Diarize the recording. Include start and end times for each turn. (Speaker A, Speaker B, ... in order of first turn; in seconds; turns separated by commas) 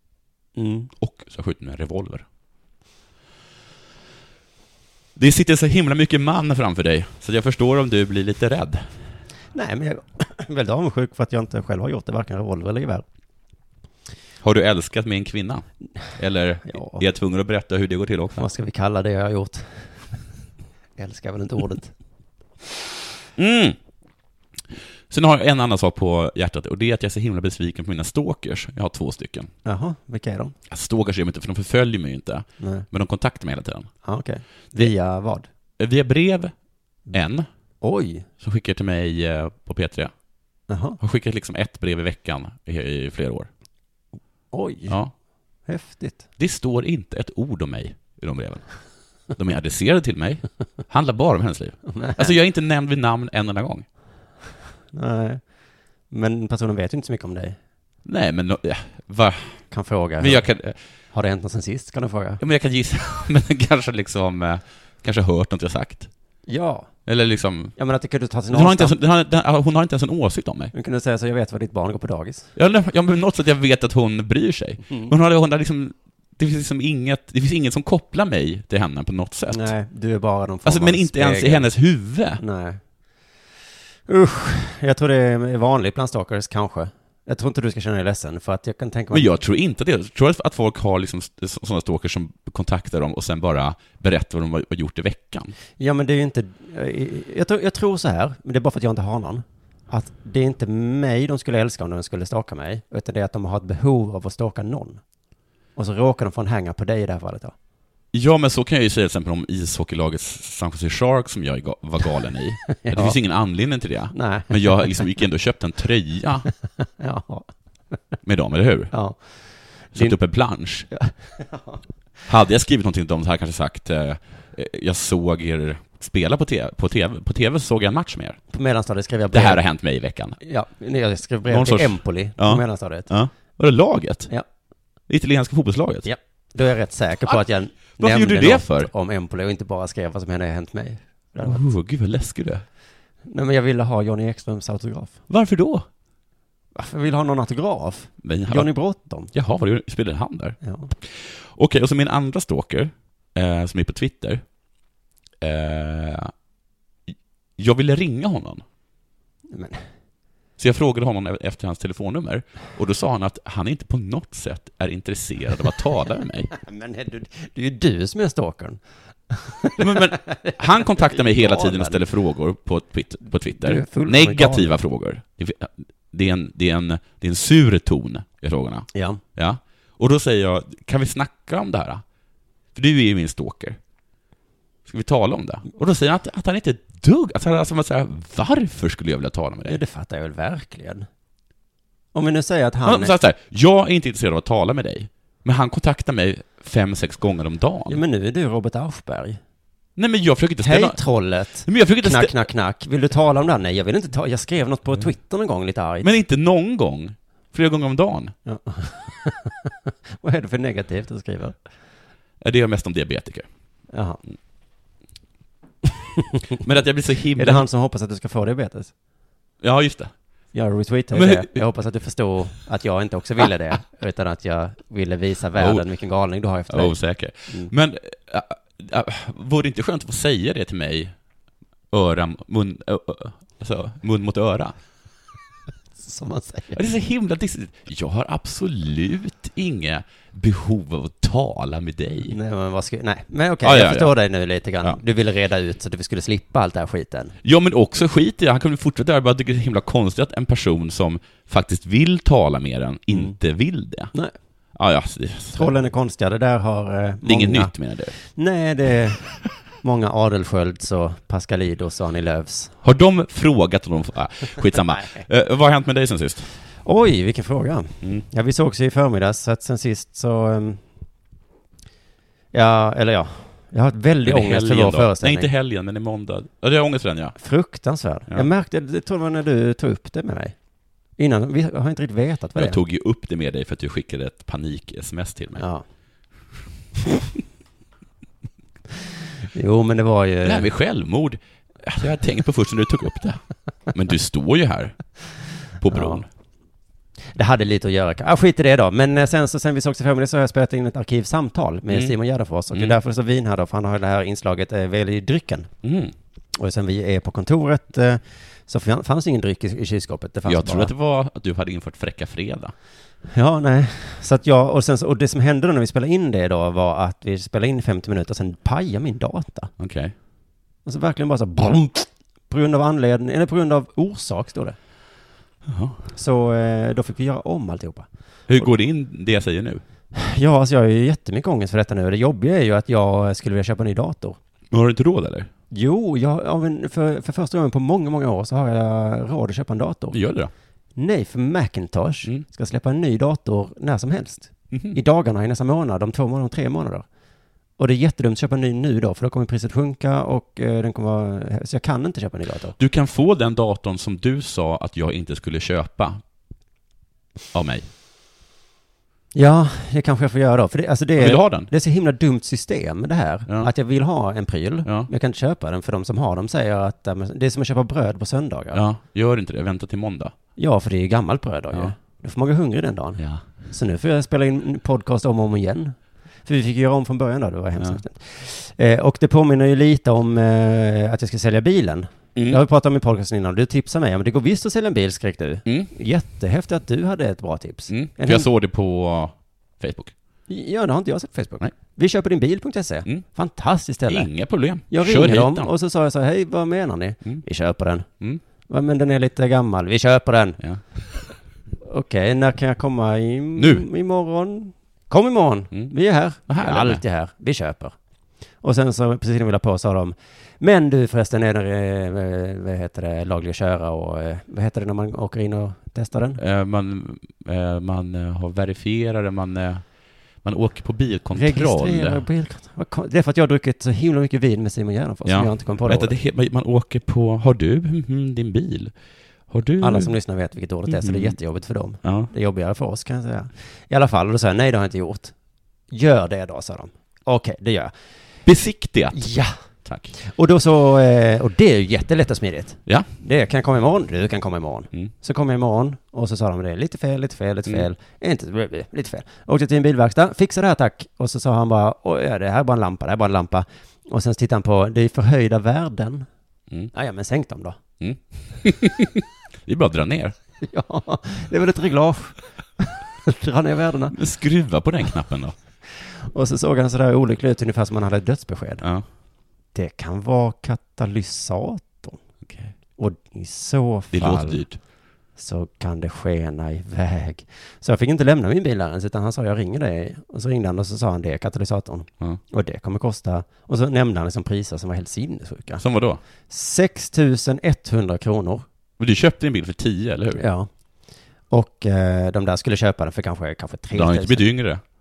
Speaker A: 0.6-0.9, Speaker B: 1.0-2.3, Speaker B: 5.2-8.9, Speaker A: 9.5-13.1, Speaker B: 14.4-18.5, Speaker A: 16.7-17.0, Speaker A: 18.4-20.2, Speaker A: 21.0-21.9, Speaker B: 23.4-23.8, Speaker B: 25.1-29.5, Speaker A: 29.6-30.5, Speaker B: 30.7-33.9, Speaker A: 32.6-32.9, Speaker A: 34.0-35.5, Speaker B: 35.8-36.5, Speaker B: 37.1-37.5, Speaker A: 37.8-38.3, Speaker B: 38.4-40.1, Speaker A: 40.7-41.0, Speaker B: 41.0-43.5, Speaker A: 44.5-45.0, Speaker A: 45.7-46.2, Speaker B: 46.4-48.7, Speaker B: 49.3-53.9, Speaker A: 51.9-52.4, Speaker A: 54.9-55.4, Speaker A: 56.1-57.6, Speaker B: 58.0-59.6, Speaker A: 59.7-60.5, Speaker B: 60.2-60.8, Speaker A: 61.1-62.4, Speaker B: 62.4-66.1, Speaker A: 66.5-66.9, Speaker B: 67.1-67.8, Speaker A: 67.8-69.0, Speaker B: 68.5-70.7, Speaker A: 70.7-72.5, Speaker B: 72.6-79.7, Speaker A: 74.9-75.1, Speaker A: 79.5-81.7, Speaker B: 80.7-82.4, Speaker A: 82.4-82.8, Speaker A: 84.1-89.3, Speaker B: 89.1-95.5, Speaker A: 95.8-105.0, Speaker A: 105.8-107.5, Speaker B: 108.1-116.5, Speaker A: 112.8-113.2, Speaker A: 114.1-115.0, Speaker A: 117.0-117.9, Speaker B: 118.2-118.9, Speaker A: 118.9-120.2, Speaker B: 119.9-120.9, Speaker A: 120.9-121.8, Speaker B: 122.3-128.4, Speaker A: 128.5-129.6, Speaker B: 129.3-130.4, Speaker A: 130.4-133.1, Speaker B: 131.5-134.3, Speaker B: 135.1-136.1, Speaker A: 136.1-141.6, Speaker B: 137.3-138.9, Speaker B: 141.4-142.6, Speaker A: 143.2-145.2, Speaker B: 145.3-145.9, Speaker A: 146.7-149.3, Speaker B: 148.2-148.7, Speaker B: 149.3-154.4, Speaker A: 150.6-150.9, Speaker B: 155.4-156.3, Speaker B: 157.1-158.6, Speaker A: 159.5-159.8, Speaker B: 160.6-166.5, Speaker A: 166.5-172.0, Speaker B: 169.8-182.0, Speaker A: 173.5-174.8, Speaker A: 178.9-179.2, Speaker B: 182.8-183.8, Speaker B: 184.9-189.8, Speaker A: 189.7-191.1, Speaker A: 192.1-193.2, Speaker B: 192.8-198.0, Speaker A: 197.9-199.4, Speaker B: 200.0-201.0, Speaker A: 200.6-206.1, Speaker B: 201.7-202.5, Speaker B: 206.0-208.3, Speaker A: 208.5-211.6, Speaker B: 212.4-213.5, Speaker A: 213.9-214.2, Speaker B: 216.6-217.7, Speaker A: 217.4-218.9, Speaker B: 219.6-220.1, Speaker A: 220.5-227.7, Speaker B: 221.1-221.7, Speaker B: 225.6-225.8, Speaker B: 226.7-231.1, Speaker B: 231.9-234.7, Speaker A: 236.0-236.8, Speaker B: 236.7-242.4, Speaker A: 242.3-247.3, Speaker B: 243.6-244.2, Speaker B: 247.4-254.1, Speaker A: 253.1-253.4, Speaker B: 254.8-255.8, Speaker A: 255.5-262.8, Speaker B: 257.2-258.2, Speaker B: 262.8-266.5, Speaker A: 264.9-265.2, Speaker A: 266.8-270.8, Speaker A: 272.5-275.5, Speaker B: 274.2-277.4, Speaker A: 277.4-280.6, Speaker A: 281.2-282.8, Speaker B: 282.6-285.6, Speaker A: 285.6-285.9, Speaker A: 289.6-290.7, Speaker B: 290.4-293.4, Speaker B: 293.9-295.0, Speaker B: 295.8-296.3, Speaker A: 295.9-296.2, Speaker A: 297.3-305.7, Speaker B: 301.9-302.1, Speaker B: 305.8-306.1, Speaker A: 306.6-310.9, Speaker B: 310.5-312.7, Speaker A: 313.3-319.7, Speaker B: 319.8-320.1, Speaker A: 320.9-324.8, Speaker B: 325.7-326.0, Speaker A: 326.1-328.7, Speaker B: 328.5-329.8, Speaker A: 330.1-334.4, Speaker B: 334.7-335.5, Speaker A: 335.7-340.2, Speaker B: 340.1-340.5, Speaker A: 341.0-347.1, Speaker B: 344.7-345.0, Speaker A: 347.8-352.8, Speaker B: 352.8-356.2, Speaker B: 357.5-357.9, Speaker A: 359.3-368.8, Speaker B: 361.2-361.7, Speaker B: 364.9-365.1, Speaker B: 368.7-370.3, Speaker A: 370.6-388.5, Speaker B: 373.2-373.5, Speaker B: 382.4-382.6, Speaker B: 385.7-385.9, Speaker B: 387.9-390.1, Speaker A: 390.5-394.3, Speaker B: 394.1-395.7, Speaker A: 394.9-398.1, Speaker A: 398.7-400.6, Speaker A: 401.8-408.0, Speaker B: 403.6-403.9, Speaker B: 406.5-407.0, Speaker A: 408.6-416.4, Speaker B: 416.4-419.9, Speaker B: 420.4-422.2, Speaker A: 421.3-426.1, Speaker B: 425.3-428.9, Speaker B: 429.5-430.1, Speaker A: 429.8-435.3, Speaker B: 430.9-431.4, Speaker B: 432.0-432.3, Speaker A: 435.9-437.9, Speaker B: 438.4-439.2, Speaker A: 439.1-439.6, Speaker B: 439.9-440.1, Speaker A: 440.2-456.3, Speaker A: 456.9-457.8, Speaker B: 458.0-460.4, Speaker A: 460.6-464.1, Speaker B: 464.1-465.6, Speaker A: 465.9-468.8, Speaker A: 469.8-472.2, Speaker B: 472.4-472.7, Speaker A: 473.0-474.7, Speaker B: 474.1-474.8, Speaker A: 475.4-485.8, Speaker B: 485.8-486.2, Speaker A: 486.5-488.6, Speaker B: 489.0-490.4, Speaker A: 490.4-490.7, Speaker A: 491.5-494.4, Speaker B: 493.9-494.8